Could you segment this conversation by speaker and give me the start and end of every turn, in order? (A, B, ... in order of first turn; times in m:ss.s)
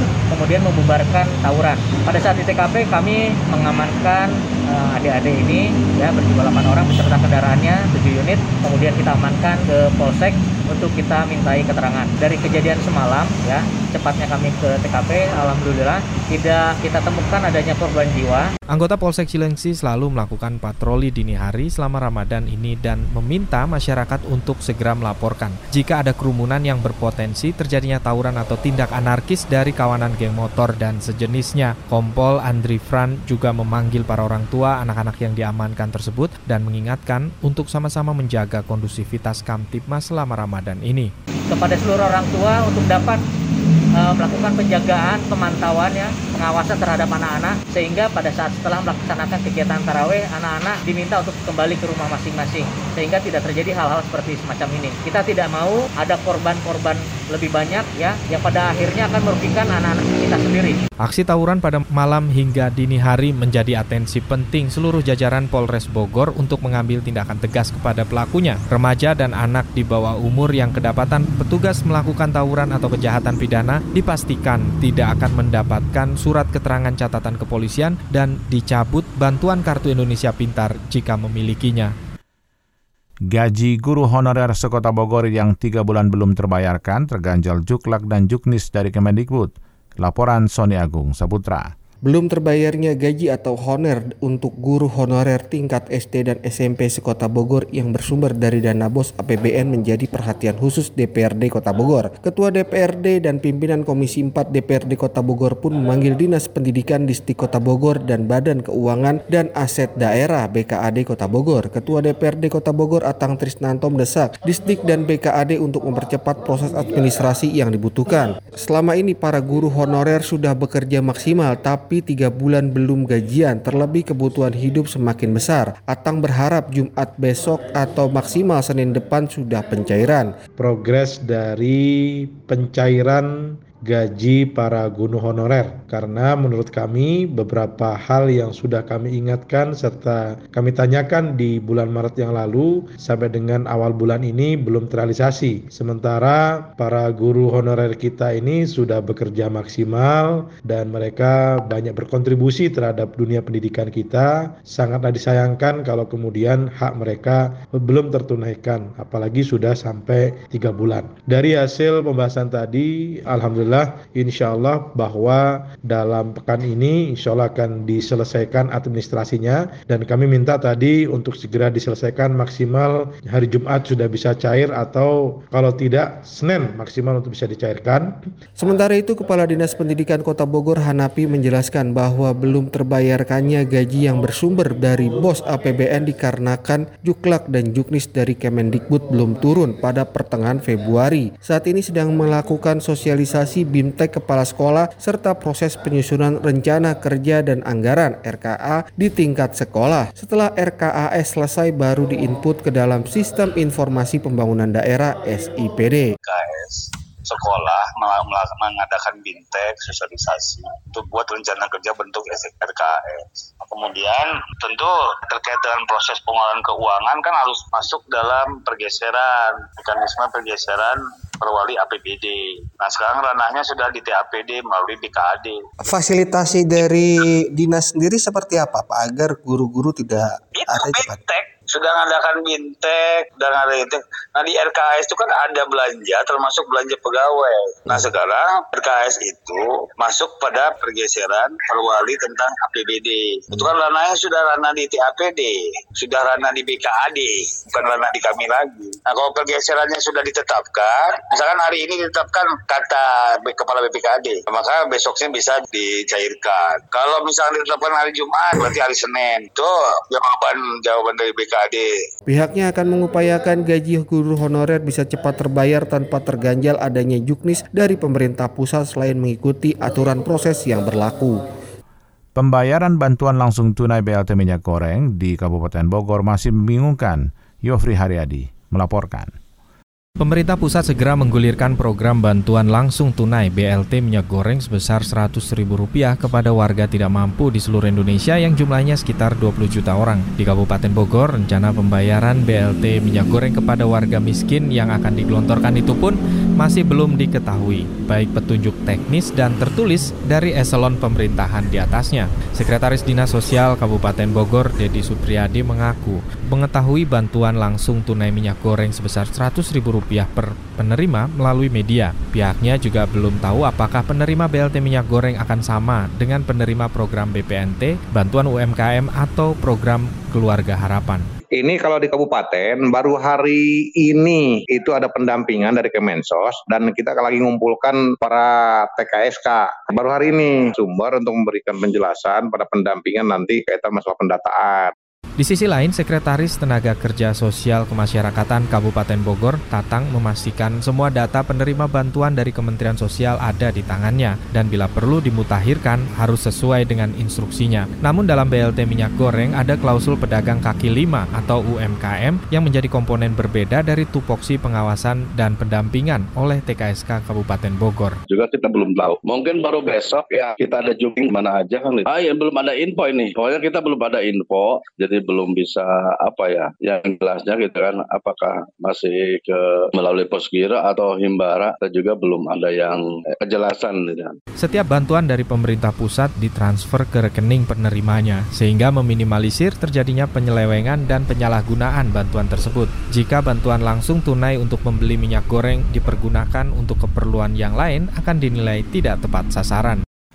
0:00.3-0:18.5 A
0:18.7-0:41.1 B
0:41.5-0:43.2 A
0:44.0-1:00.8 A
1:01.0-1:21.9 B
1:23.3-1:31.7 C
1:32.1-2:10.3 D
2:10.6-2:13.3 E
2:13.8-2:58.1 E
2:58.6-3:26.1 D
3:26.2-3:45.6 F
3:45.9-3:51.1 D
3:50.6-4:21.9 F
4:22.3-4:31.4 D
4:32.4-4:39.3 C
4:40.2-5:21.3 B
5:21.6-5:34.9 G
5:35.4-5:58.2 B
5:58.3-6:14.4 H
6:14.6-6:30.0 B